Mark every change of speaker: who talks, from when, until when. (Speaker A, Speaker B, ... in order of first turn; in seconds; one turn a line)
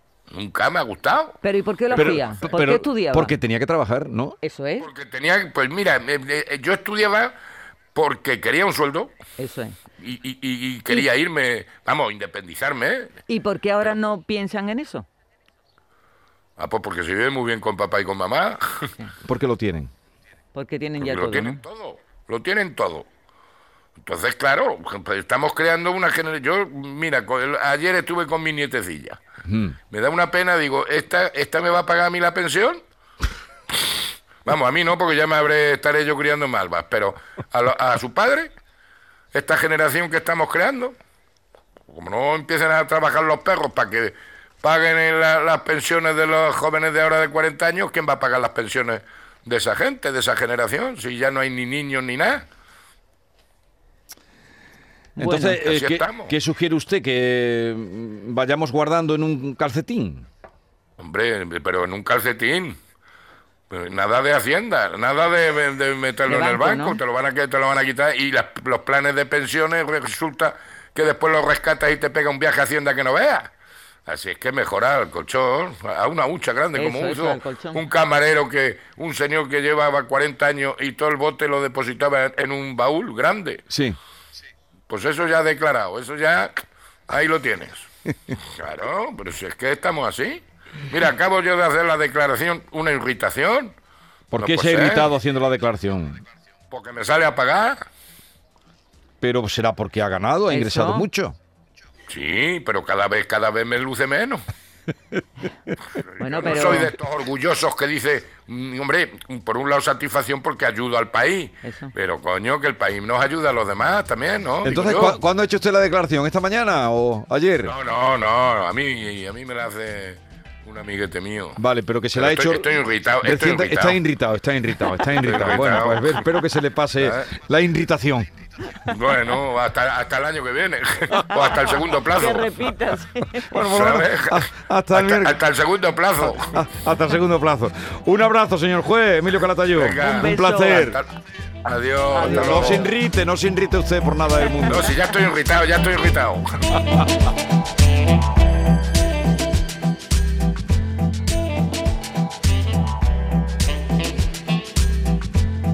Speaker A: 0.3-1.4
Speaker B: 1.4-3.4
Speaker C: 1.9-4.4
Speaker A: 2.0-2.5
Speaker B: 4.4-4.9
Speaker A: 4.8-7.3
Speaker A: 7.9-9.1
Speaker B: 9.4-9.8
Speaker A: 10.0-13.2
Speaker B: 13.3-15.1
Speaker A: 16.6-18.9
Speaker C: 19.2-19.9
Speaker B: 20.5-21.6
Speaker A: 21.0-23.1
Speaker A: 24.0-29.2
Speaker C: 29.4-29.8
Speaker A: 29.9-32.8
Speaker A: 34.4-38.5
Speaker A: 39.3-41.0
Speaker A: 41.9-52.5
Speaker B: 55.1-55.6
Speaker C: 55.2-60.3
Speaker A: 55.6-56.3
Speaker A: 61.0-62.8
Speaker A: 63.7-73.5
Speaker B: 66.3-67.0
Speaker A: 74.0-83.6
Speaker B: 76.7-77.8
Speaker C: 83.7-84.0
Speaker A: 84.9-87.9
Speaker A: 88.5-93.7
Speaker C: 94.3-96.2
Speaker A: 94.3-95.1
Speaker A: 96.7-97.8
Speaker C: 99.2-101.4
Speaker B: 100.5-101.1
Speaker A: 102.1-104.4
Speaker A: 106.0-115.2
Speaker B: 106.2-106.9
Speaker B: 111.6-111.9
Speaker C: 114.6-117.7
Speaker A: 117.6-121.6
Speaker C: 121.6-122.7
Speaker A: 122.1-124.0
Speaker C: 123.2-128.3
Speaker A: 125.0-126.3
Speaker A: 127.0-127.3
Speaker A: 128.8-132.7
Speaker B: 131.9-133.7
Speaker C: 133.5-135.4
Speaker A: 133.6-136.6
Speaker C: 136.3-141.0
Speaker A: 139.7-141.1
Speaker B: 140.0-140.9
Speaker A: 141.6-142.9
Speaker B: 142.1-142.9
Speaker C: 142.2-144.9
Speaker A: 144.6-147.0